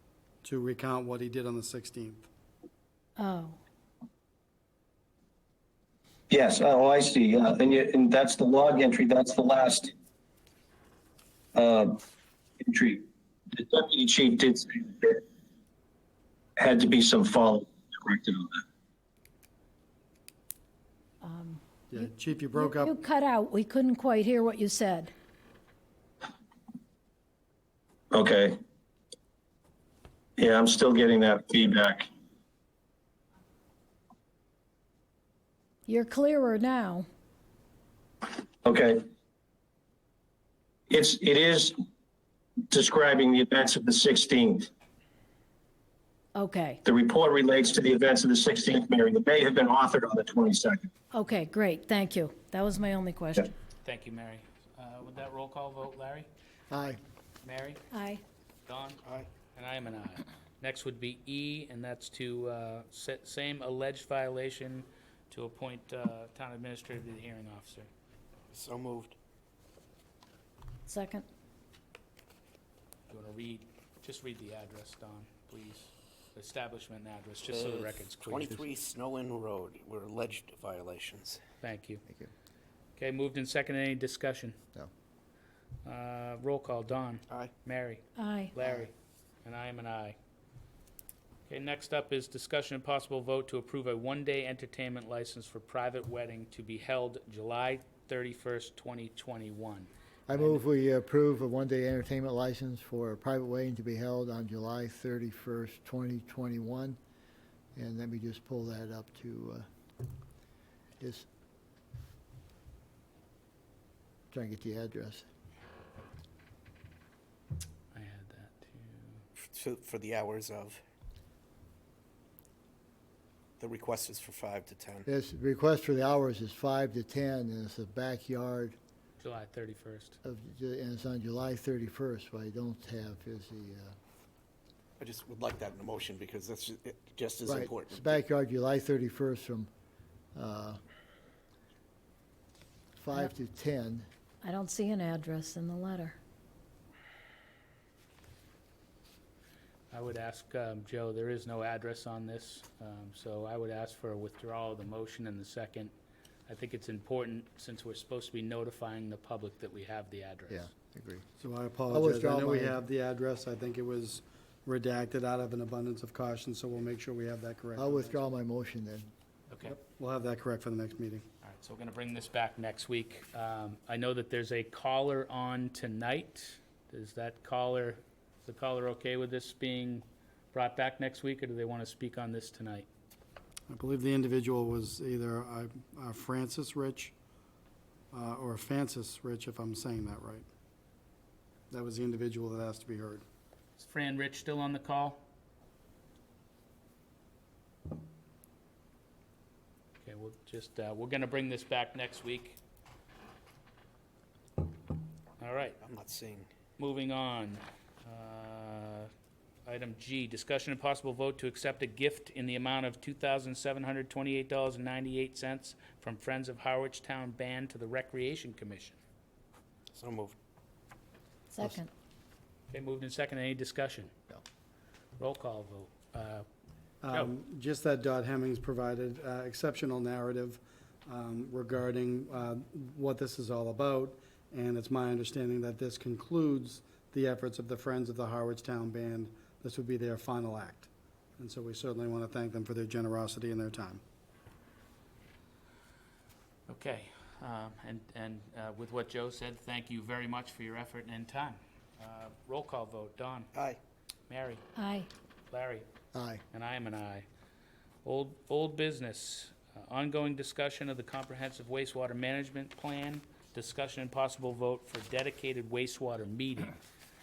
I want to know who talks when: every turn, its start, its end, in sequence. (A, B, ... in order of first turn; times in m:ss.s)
0:00.4-0:02.3 A
0:03.2-0:03.6 B
0:06.3-0:09.9 C
0:11.6-0:12.0 C
0:12.6-0:15.2 C
0:16.6-0:18.6 C
0:21.2-0:25.1 B
0:21.9-0:23.0 A
0:28.1-0:28.6 C
0:30.4-0:32.1 C
0:35.9-0:37.1 B
0:38.6-0:39.0 C
0:40.9-0:41.7 C
0:42.7-0:44.7 C
0:46.4-0:46.8 B
0:46.8-0:50.9 C
0:51.1-0:53.5 B
0:53.8-0:56.3 D
0:56.7-0:57.0 E
0:57.4-0:57.8 D
0:57.9-0:58.2 B
0:58.7-0:59.0 D
0:59.0-0:59.3 F
0:59.5-1:07.9 D
1:08.5-1:09.2 F
1:10.9-1:11.3 B
1:13.1-1:18.7 D
1:17.5-1:21.4 F
1:21.6-1:22.0 D
1:23.0-1:24.6 D
1:25.8-1:30.2 D
1:28.2-1:28.6 B
1:31.5-1:40.6 D
1:40.3-1:47.0 E
1:47.8-1:49.7 E
1:51.0-1:51.3 E
1:54.3-1:55.2 E
1:57.9-1:59.2 D
1:59.5-2:00.8 F
2:03.6-2:05.1 F
2:05.1-2:08.8 E
2:09.2-2:10.2 D
2:10.2-2:14.0 E
2:15.0-2:18.2 F
2:17.5-2:19.7 E
2:20.4-2:20.8 E
2:23.0-2:24.1 E
2:24.4-2:26.2 B
2:29.9-2:35.9 D
2:36.5-2:40.7 D
2:40.5-2:41.3 E
2:41.4-2:48.2 A
2:41.9-2:42.8 E
2:47.8-2:49.1 E
2:49.5-2:49.8 D
2:49.7-2:51.3 A
2:51.4-3:02.9 D
3:03.7-3:07.1 A
3:08.1-3:10.5 A
3:11.7-3:13.2 A
3:13.8-3:15.2 D
3:20.0-3:22.6 D
3:25.4-3:25.8 D
3:25.8-3:26.5 F
3:26.8-3:29.1 D
3:29.6-3:39.0 D
3:39.9-3:40.4 F
3:41.5-3:41.9 B
3:42.7-3:44.1 D
3:45.2-3:46.5 D
3:47.0-4:04.0 A
4:06.7-4:13.5 D
4:14.3-4:14.7 D
4:14.8-4:15.1 B
4:15.5-4:15.9 D
4:16.1-4:16.4 E
4:16.5-4:17.3 D
4:18.0-4:26.8 D